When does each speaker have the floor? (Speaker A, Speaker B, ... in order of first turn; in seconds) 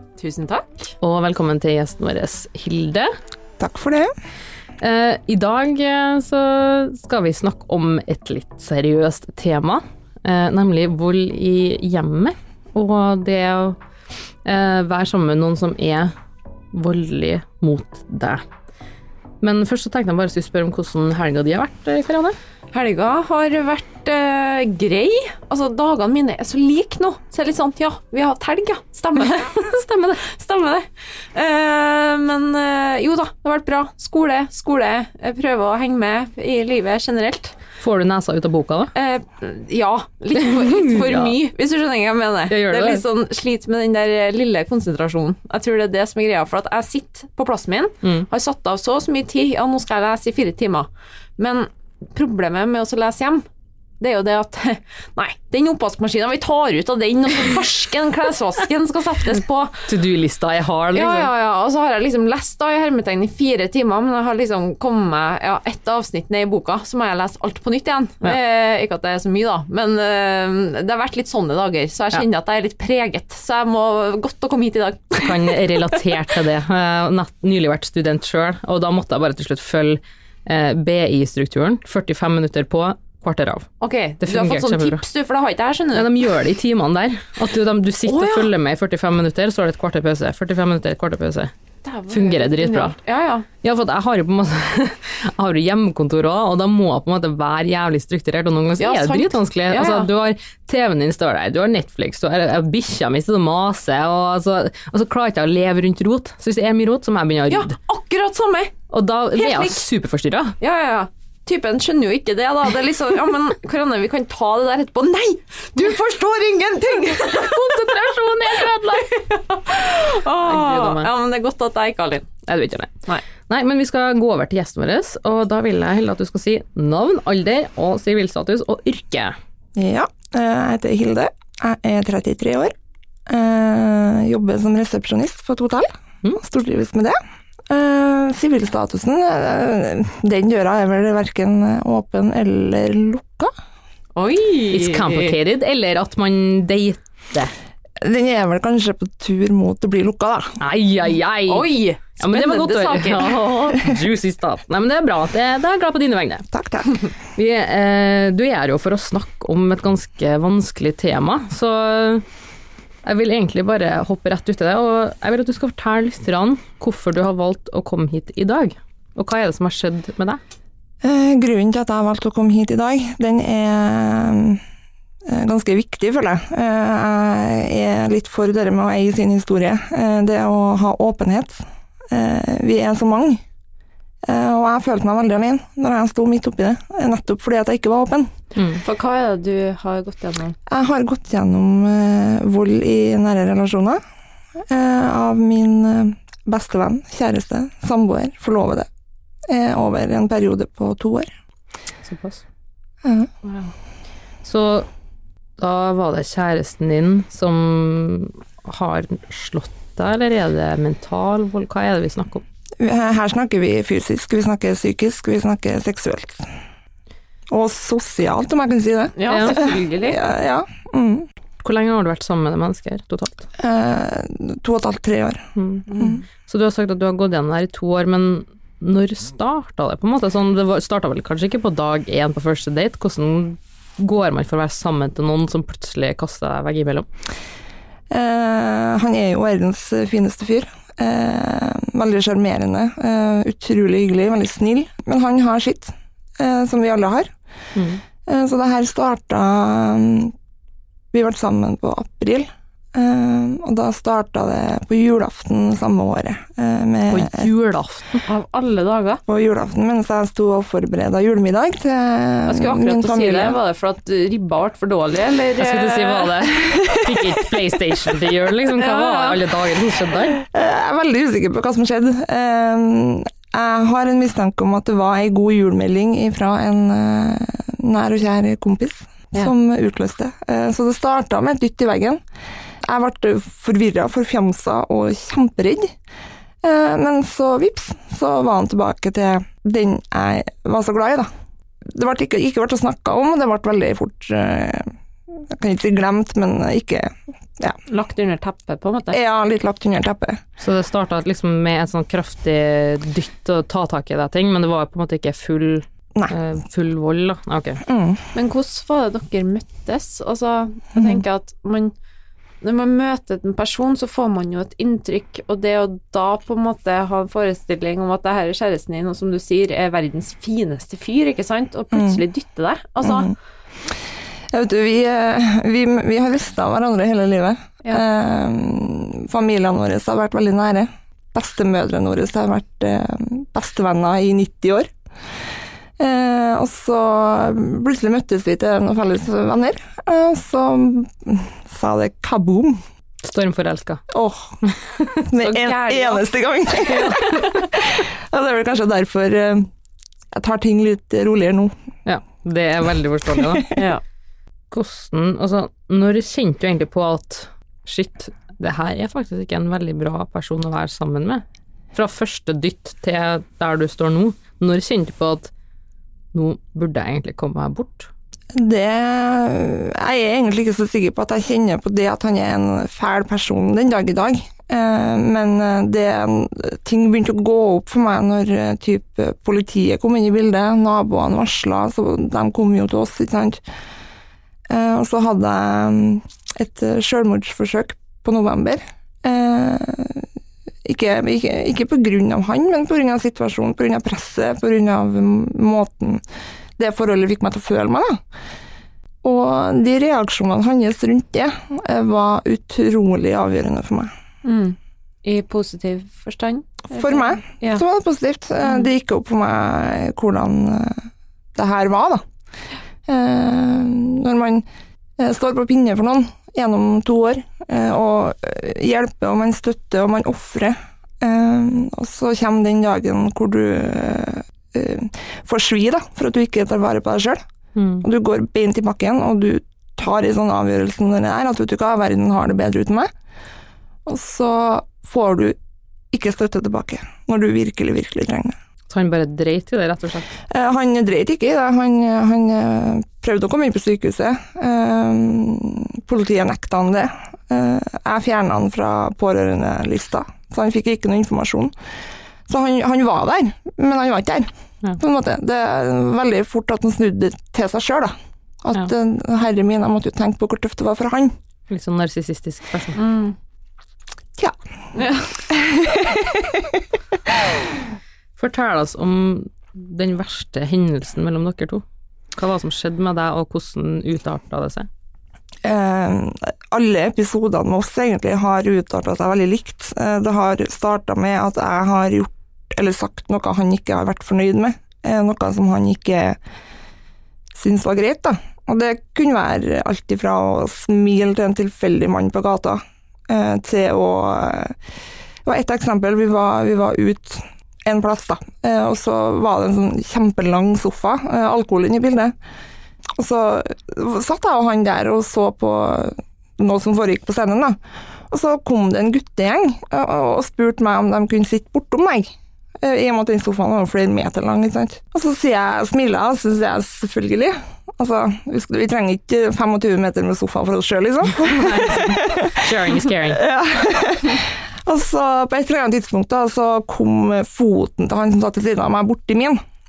Speaker A: 0.2-0.9, 22.7-37.6, 39.0-53.5, 54.0-59.9, 60.9-76.2, 83.8-86.3, 88.1-88.5, 91.8-93.5, 98.8-100.1, 107.5-108.8, 109.3-109.9, 110.6-122.3, 144.2-145.3, 151.5-153.7, 188.8-190.6, 203.4-203.7, 219.2-220.2, 225.9-226.2, 258.3-259.2, 262.4-266.4, 268.8-269.5, 297.9-299.2, 308.3-311.9, 312.6-323.3, 345.4-346.2, 353.7-354.0, 404.4-407.8, 462.9-463.4, 464.9-465.4
Speaker B: 1.0-3.1, 4.8-13.8, 14.4-16.1, 16.7-18.4, 19.4-22.4, 37.8-38.9, 40.4-41.4, 42.5-43.0, 59.9-61.3, 75.2-83.7, 84.2-85.0, 85.9-91.5, 92.1-93.0, 93.6-107.8, 108.9-110.6, 117.3-119.2, 120.4-121.1, 122.5-129.4, 144.7-147.5, 150.6-156.5, 157.3-162.2, 163.0-170.4, 188.6-188.8, 202.0-202.4, 204.4-204.9, 205.6-212.4, 219.3-219.6, 221.6-223.5, 225.6-237.1, 247.7-248.0, 257.1-258.2, 265.6-270.4, 300.6-307.8, 343.2-344.0, 344.6-345.2, 346.9-347.5, 352.1-353.8, 354.7-365.5, 366.3-368.1, 427.8-428.1, 438.9-440.3, 461.7-463.0, 468.4-471.8, 472.3-474.9, 521.4-523.4
Speaker C: 3.6-4.1, 129.8-132.7, 133.3-137.2, 137.7-143.5, 148.0-150.6, 156.5-157.0, 171.0-174.6, 175.2-183.4, 184.2-188.3, 190.7-194.0, 194.7-198.9, 199.5-201.3, 203.0-203.3, 212.8-216.5, 217.5-221.3, 223.6-226.2, 238.1-247.3, 248.2-250.3, 251.1-257.5, 259.3-263.6, 266.7-267.3, 270.4-282.2, 282.8-285.9, 286.6-291.3, 291.9-297.8, 299.1-300.4, 307.8-308.2, 321.9-322.2, 323.0-323.3, 324.5-334.9, 336.0-342.8, 344.1-344.6, 345.3-349.7, 350.3-351.7, 353.4-353.6, 368.5-383.6, 384.7-390.3, 390.8-396.2, 396.8-398.2, 399.2-404.1, 406.9-412.2, 413.1-414.6, 415.2-427.4, 428.0-433.1, 434.1-435.6, 436.1-438.6, 440.5-451.7, 452.5-461.3, 465.4-467.7, 475.6-486.4, 487.5-494.8, 495.4-502.3, 503.2-507.8, 508.3-529.6